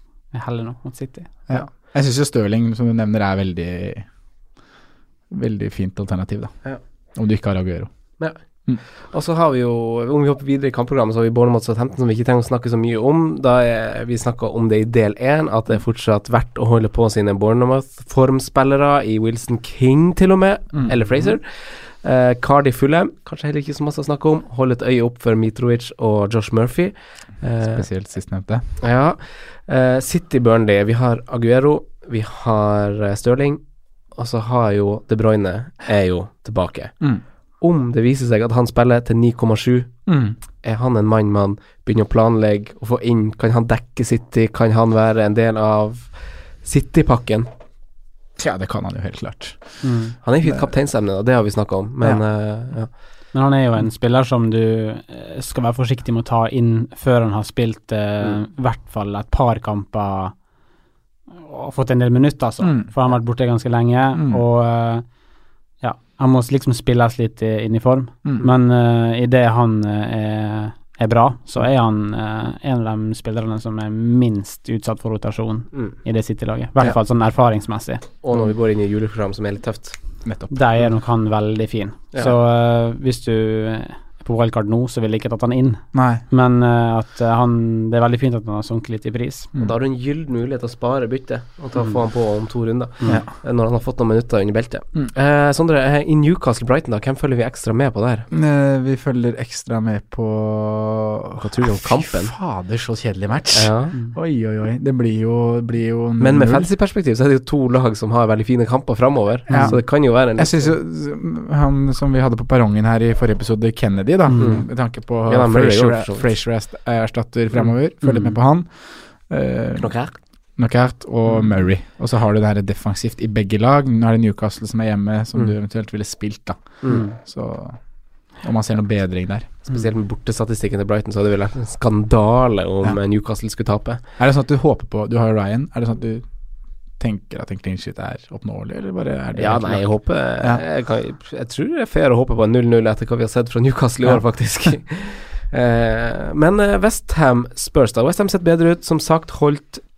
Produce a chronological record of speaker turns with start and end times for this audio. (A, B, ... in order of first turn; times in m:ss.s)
0:00.3-0:01.3 A
0:01.5-0:04.0 B
0:05.3-0:06.5 B
0:07.2-0:07.9 B
0:09.1-0:27.9 C
0:20.7-0:21.0 B
0:27.6-0:28.6 B
0:28.8-0:33.6 C
0:34.1-0:37.0 C
0:37.6-0:39.9 C
0:40.1-0:40.4 B
0:40.6-0:46.1 C
0:46.6-0:47.5 C
0:48.4-0:49.8 B
0:49.8-0:50.2 A
0:50.2-0:52.9 C
0:53.3-1:00.4 A
1:01.4-1:05.0 A
1:02.6-1:02.9 B
1:04.2-1:04.4 B
1:05.8-1:18.0 A
1:18.2-1:20.0 C
1:20.2-1:20.7 B
1:20.5-1:29.5 A
1:25.9-1:26.2 B
1:29.6-1:38.3 C
1:31.8-1:32.0 A
1:33.0-1:33.3 B
1:38.3-1:46.7 B
1:41.4-1:42.3 C
1:43.5-1:43.9 C
1:46.2-1:50.7 C
1:49.5-2:00.0 B
1:49.5-1:49.8 A
1:54.3-1:54.6 A
1:54.4-1:54.7 C
1:55.2-1:56.3 C
1:58.0-1:58.4 A
1:59.8-2:00.1 C
2:00.6-2:07.8 B
2:06.8-2:07.1 C
2:08.3-2:09.6 B
2:09.6-2:14.0 C
2:14.2-2:16.2 B
2:17.0-2:20.6 B
2:19.4-2:29.8 C